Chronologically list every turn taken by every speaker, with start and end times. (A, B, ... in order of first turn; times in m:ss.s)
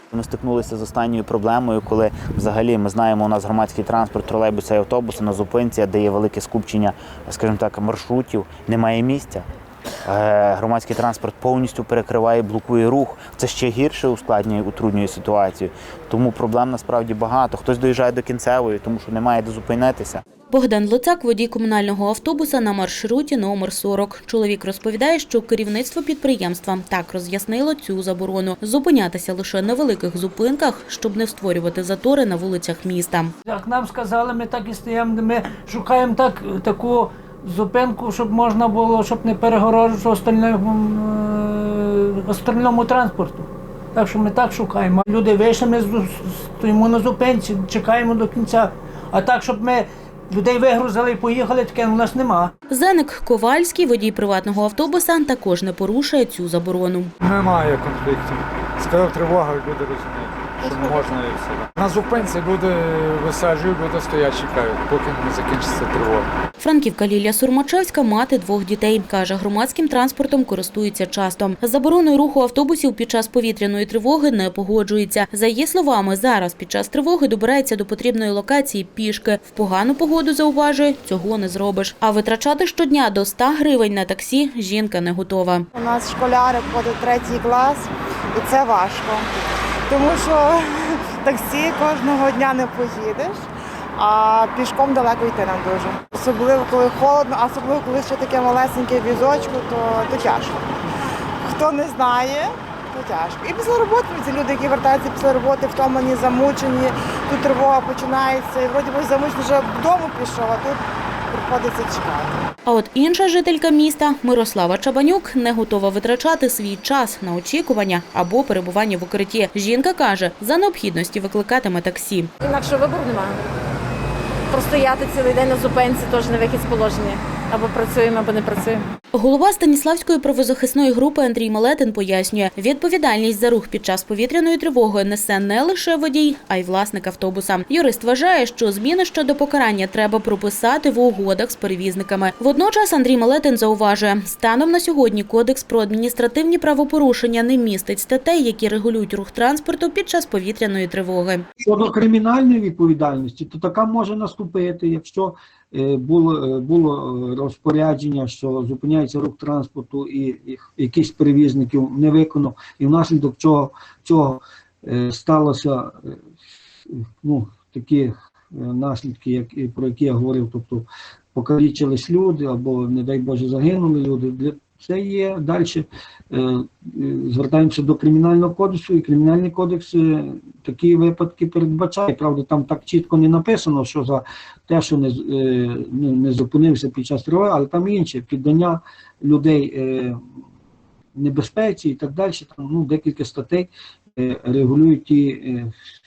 0:00.1-0:09.4 A
0:10.0-0:20.2 A
0:20.5-0:33.3 B
0:33.4-0:52.5 C
0:52.7-0:57.1 B
0:57.2-1:06.3 D
1:06.6-1:25.7 B
1:25.7-1:33.4 E
1:34.0-1:40.8 E
1:41.4-1:50.8 E
1:51.3-1:52.4 E
1:52.6-2:02.3 B
2:02.4-2:03.4 F
2:04.5-2:08.8 F
2:09.1-2:31.4 B
2:31.6-2:46.1 G
2:46.9-3:10.2 G
3:11.2-3:15.7 G